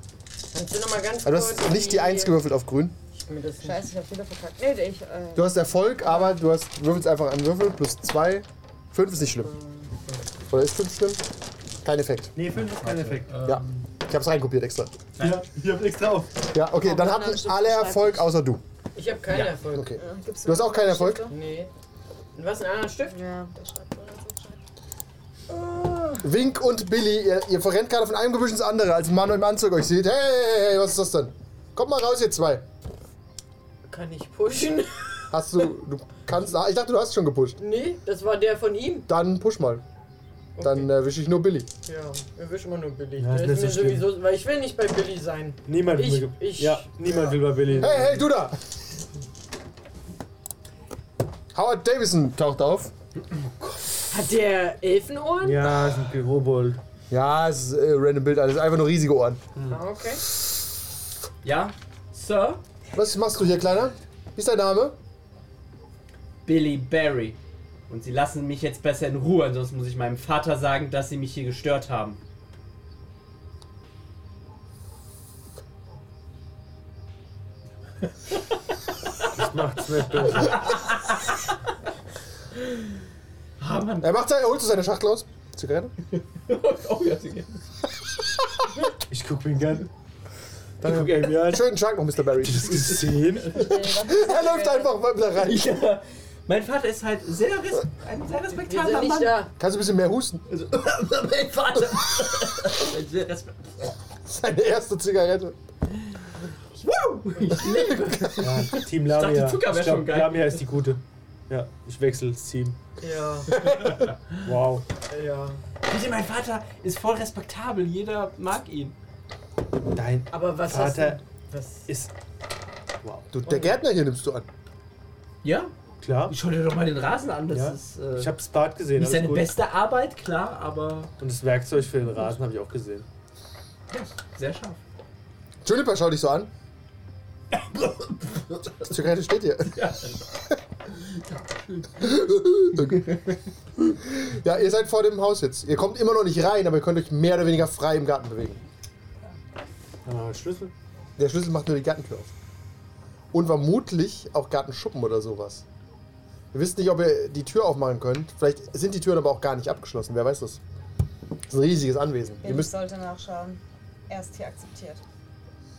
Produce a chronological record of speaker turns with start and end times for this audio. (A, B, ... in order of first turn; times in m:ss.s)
0:00.5-0:02.4 A
0:01.2-0:03.0 B
0:03.2-0:03.8 A
0:03.6-0:06.4 C
0:05.4-0:09.5 B
0:10.5-0:11.2 B
0:11.8-0:12.3 B
0:12.4-0:13.5 D
0:12.6-0:13.9 E
0:13.5-0:15.0 B
0:15.2-0:15.4 E
0:15.2-0:16.5 D
0:16.5-0:18.6 B
0:16.8-0:18.4 C
0:19.0-0:19.9 A
0:19.7-0:21.3 B
0:19.9-0:21.4 C
0:21.3-0:21.7 A
0:22.4-0:23.2 A
0:23.1-0:24.6 C
0:25.5-0:26.2 C
0:26.2-0:32.6 B
0:33.9-0:35.3 A
0:35.3-0:37.6 B
0:37.6-0:39.1 A
0:39.1-0:39.8 B
0:40.6-0:40.9 A
0:40.6-0:41.7 B
0:41.9-0:46.9 A
0:43.2-0:44.1 D
0:45.7-0:48.2 D
0:47.7-0:48.6 B
0:51.5-0:52.9 B
0:53.6-0:54.1 D
0:54.1-0:55.7 A
0:55.4-0:56.8 D
0:57.1-0:59.4 B
0:59.7-1:00.2 A
1:01.4-1:02.6 E
1:02.9-1:05.0 B
1:06.4-1:07.4 E
1:07.9-1:12.2 E
1:19.3-1:20.7 D
1:20.4-1:21.4 E
1:23.6-1:24.1 E
1:24.0-1:25.9 B
1:26.1-1:27.6 E
1:29.1-1:29.9 D
1:30.8-1:31.7 D
1:30.8-1:33.2 B
1:32.4-1:33.8 D
1:33.5-1:35.0 C
1:33.8-1:35.8 B
1:35.4-1:39.5 E
1:38.6-1:39.5 A
1:39.6-1:40.4 B
1:40.5-1:43.9 E
1:41.8-1:42.6 B
1:44.3-1:45.6 B
1:46.8-1:50.7 E
1:48.4-1:52.8 D
1:53.0-1:53.5 A
1:53.5-1:54.5 E
1:53.6-1:54.1 B
1:54.4-1:54.8 D
1:55.1-1:55.6 A
1:55.9-1:59.0 E
1:59.9-2:01.2 D
2:00.3-2:01.9 A
2:01.9-2:02.1 D
2:03.0-2:03.3 D
2:03.3-2:04.5 B
2:05.4-2:05.7 E
2:06.0-2:06.4 D
2:06.3-2:08.4 E
2:07.5-2:09.5 D
2:09.0-2:11.1 E
2:11.2-2:13.1 D
2:13.9-2:14.8 E
2:15.6-2:16.5 B
2:17.5-2:18.8 E
2:18.8-2:19.9 B
2:19.7-2:20.2 E
2:20.9-2:23.3 E
2:22.0-2:23.2 B
2:23.9-2:28.6 B
2:30.0-2:30.7 D
2:31.2-2:32.3 B
2:33.3-2:35.6 B
2:36.5-2:40.6 B
2:41.5-2:42.7 B
2:42.4-2:45.0 C